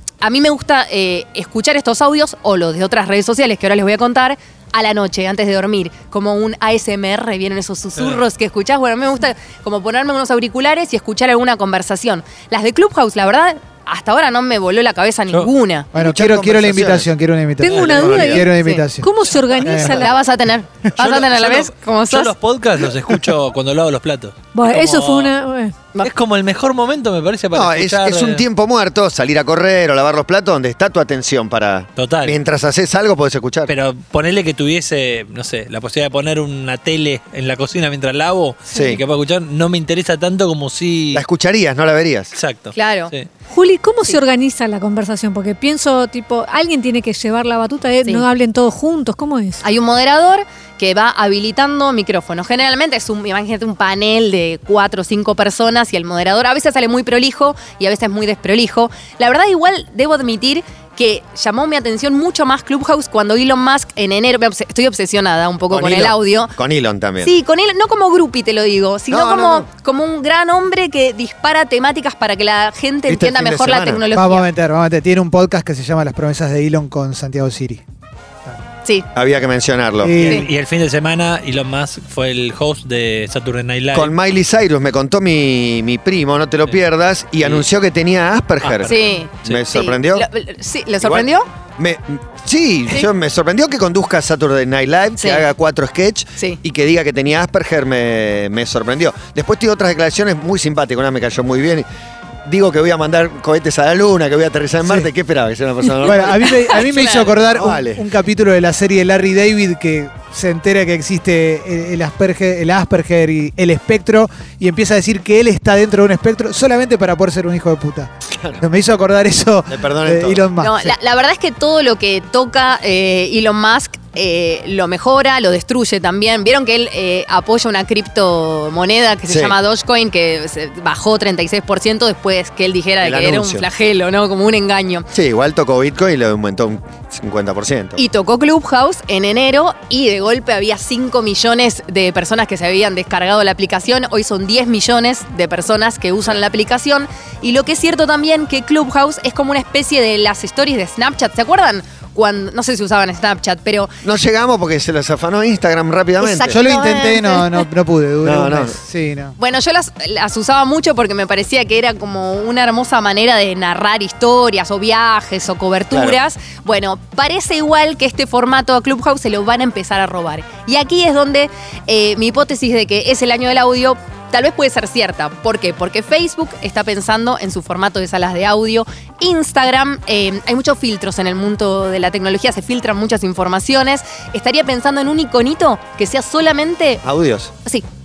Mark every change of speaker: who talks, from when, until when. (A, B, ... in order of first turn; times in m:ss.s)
0:00.2-0:15.9 A
0:16.0-0:19.1 B
0:16.0-0:17.1 C
0:17.6-0:20.1 D
0:17.7-0:18.5 E
0:17.7-0:18.5 C
0:18.6-0:18.9 A
0:19.6-0:20.1 B
0:19.7-0:20.0 E
0:20.0-0:22.3 A
0:21.0-0:25.3 E
0:24.5-0:25.8 D
0:26.0-0:28.4 E
0:27.5-0:33.7 C
0:32.0-0:32.4 E
0:33.7-0:41.2 E
0:38.7-0:39.0 C
0:41.1-0:42.3 C
0:42.3-0:43.3 E
0:42.7-0:43.1 A
0:43.5-0:49.6 D
0:49.6-1:06.6 A
1:05.7-1:07.4 C
1:07.2-1:14.5 A
1:09.1-1:09.7 C
1:13.1-1:14.0 C
1:14.1-1:17.8 B
1:19.2-1:20.2 C
1:20.0-1:20.4 B
1:20.2-1:24.1 E
1:20.2-1:20.5 A
1:23.9-1:30.3 C
1:27.4-1:27.7 E
1:28.6-1:29.6 E
1:28.9-1:31.5 A
1:31.0-1:41.9 C
1:35.2-1:35.5 A
1:42.5-1:46.7 C
1:44.8-1:45.1 B
1:46.0-2:01.0 B
1:46.6-1:47.3 A
1:47.4-1:48.0 C
1:58.3-1:58.6 C
1:59.7-2:00.6 C
2:00.6-2:15.1 A
2:09.3-2:09.6 C
2:13.0-2:13.7 C
2:15.1-2:18.0 C
2:18.0-2:34.0 A
2:34.0-2:36.6 C
2:36.2-2:37.6 A
2:36.4-2:39.3 B
2:38.2-2:38.8 C
2:39.4-3:07.0 A
2:45.9-2:46.2 C
3:07.0-3:07.5 C